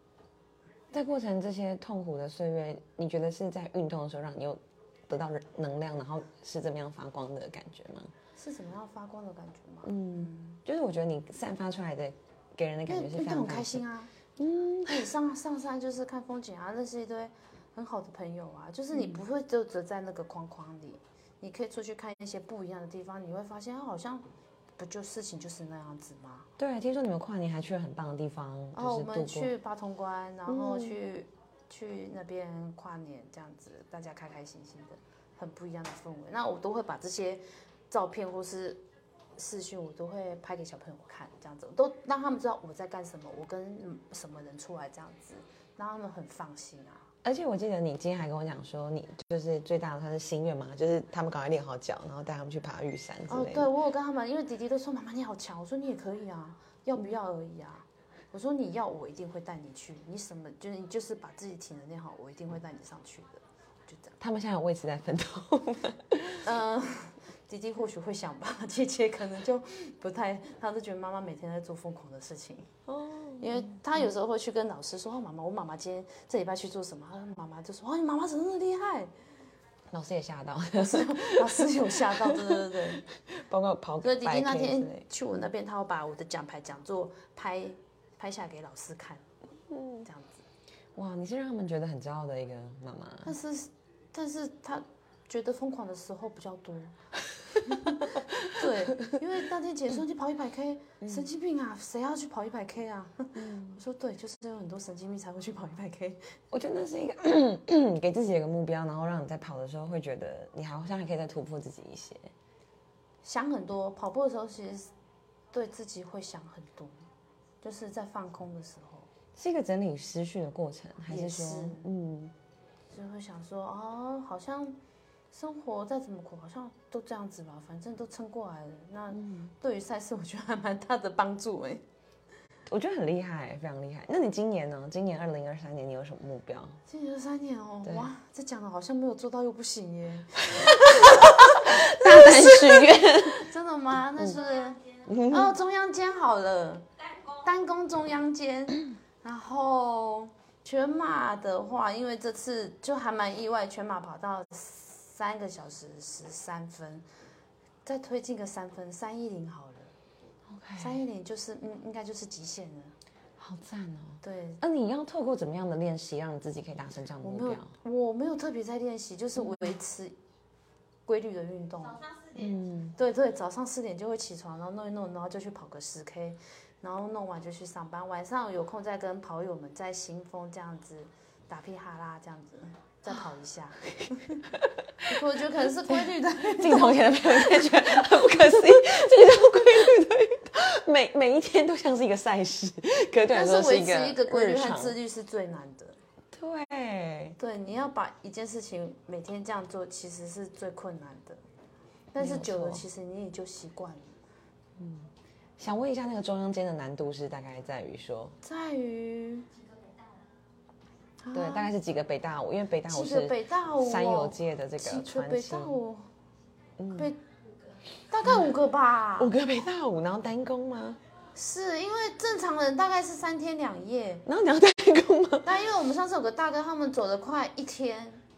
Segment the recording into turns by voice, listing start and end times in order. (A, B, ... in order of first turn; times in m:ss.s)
0:00.9-0:08.1 A
0:08.4-0:10.6 B
0:09.8-0:13.8 A
0:12.9-0:14.1 B
0:14.4-0:15.0 A
0:14.9-0:24.2 B
0:18.9-0:19.2 A
0:24.8-0:26.5 B
0:26.6-0:29.5 A
0:28.7-0:38.8 B
0:30.5-0:30.9 A
0:39.4-0:47.0 B
0:47.2-0:53.7 A
0:53.3-1:04.2 B
1:04.2-1:06.5 A
1:06.4-1:12.7 B
1:12.9-1:13.8 A
1:13.4-1:19.1 B
1:19.9-1:25.0 A
1:20.8-1:23.0 B
1:24.0-1:29.2 B
1:29.7-1:30.1 A
1:30.0-1:30.4 B
1:31.0-1:33.3 A
1:33.2-1:36.9 B
1:37.6-1:46.3 B
1:38.1-1:39.1 A
1:41.0-1:41.3 A
1:43.3-1:43.8 A
1:46.5-1:52.3 A
1:53.2-1:54.9 B
1:55.5-1:56.9 B
1:57.6-1:59.1 B
1:59.4-2:02.3 A
2:01.1-2:01.9 B
2:02.9-2:04.8 B
2:05.3-2:11.8 B
2:09.1-2:09.5 A
2:12.7-2:16.8 A
2:16.9-2:37.0 B
2:20.5-2:23.4 A
2:25.1-2:25.5 A
2:37.8-2:39.9 B
2:40.5-2:41.0 A
2:40.8-2:42.9 B
2:43.4-2:47.7 A
2:44.2-2:44.6 B
2:47.2-2:50.2 B
2:51.0-2:52.1 B
2:52.3-2:52.9 A
2:53.0-3:04.4 B
3:04.6-3:05.1 A
3:05.1-3:08.6 B
3:06.4-3:15.0 A
3:13.3-3:16.0 B
3:16.3-3:17.4 A
3:17.4-3:21.4 B
3:22.1-3:24.1 B
3:22.2-3:22.8 A
3:24.8-3:28.4 A
3:28.4-3:29.5 B
3:31.2-3:31.7 B
3:31.3-3:35.8 A
3:32.9-3:36.1 B
3:36.8-3:37.1 A
3:38.1-3:39.3 B
3:39.2-3:41.0 A
3:41.3-3:44.2 B
3:44.2-3:45.5 A
3:45.4-3:48.2 B